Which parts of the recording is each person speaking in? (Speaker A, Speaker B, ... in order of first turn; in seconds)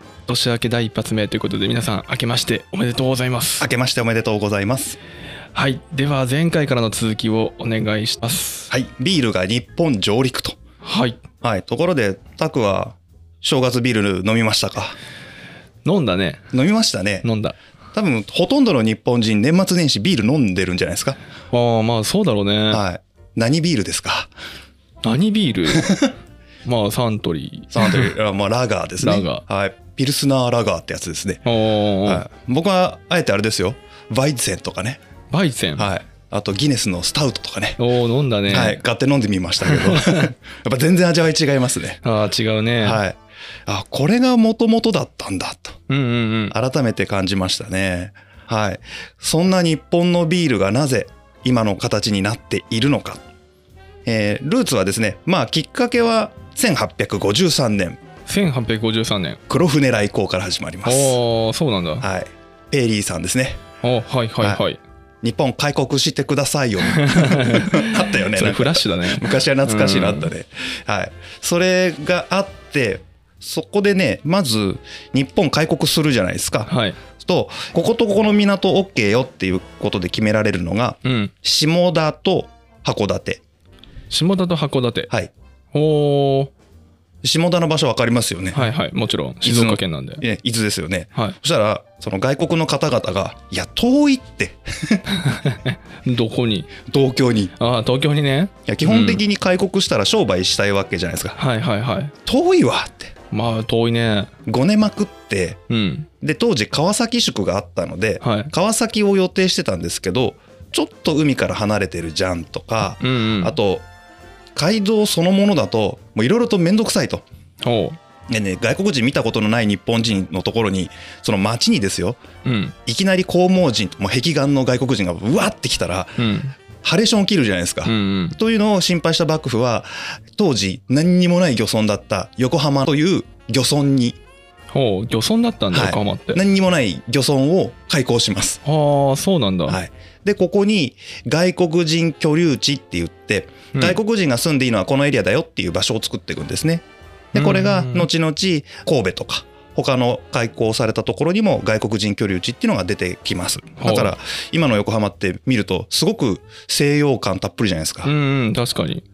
Speaker A: 0.3-3.7, 5.5-8.7, 10.8-11.2, 15.8-16.4, 17.2-17.6, 21.5-22.8, 25.0-26.1, 26.6-28.1, 29.0-29.4, 31.4-32.2, 35.3-35.9, 37.8-38.8, 39.6-40.3, 42.0-43.0, 45.9-46.5, 58.2-59.4, 60.8-62.0, 63.8-64.8, 66.8-70.3, 76.7-77.0, 81.0-81.3, 84.1-85.1, 85.7-86.5, 88.5-90.2, 95.1-96.8, 97.6-99.2, 101.3-102.1, 103.3-104.3, 105.7-106.1, 108.2-108.5, 113.0-113.5, 117.6-118.0, 122.4-122.7, 126.2-126.5, 127.8-128.4, 134.7-136.4, 138.6-139.8, 147.3-148.1, 153.8-154.1, 158.0-159.0
Speaker B: 3.6-5.0, 8.7-10.6, 11.4-14.9, 16.5-17.2, 17.9-21.2, 22.7-24.3, 27.7-31.4, 32.0-35.0, 35.8-37.8, 38.5-42.0, 42.8-45.8, 46.5-53.2, 54.0-58.0, 59.5-61.2, 62.0-63.6, 65.2-83.4, 87.2-88.7, 89.4-95.0, 96.9-97.5, 98.7-101.4, 102.2-103.1, 104.5-105.6, 106.2-113.8, 114.5-117.2, 118.3-122.2, 122.8-126.2, 126.8-134.2, 135.7-138.6, 139.7-158.1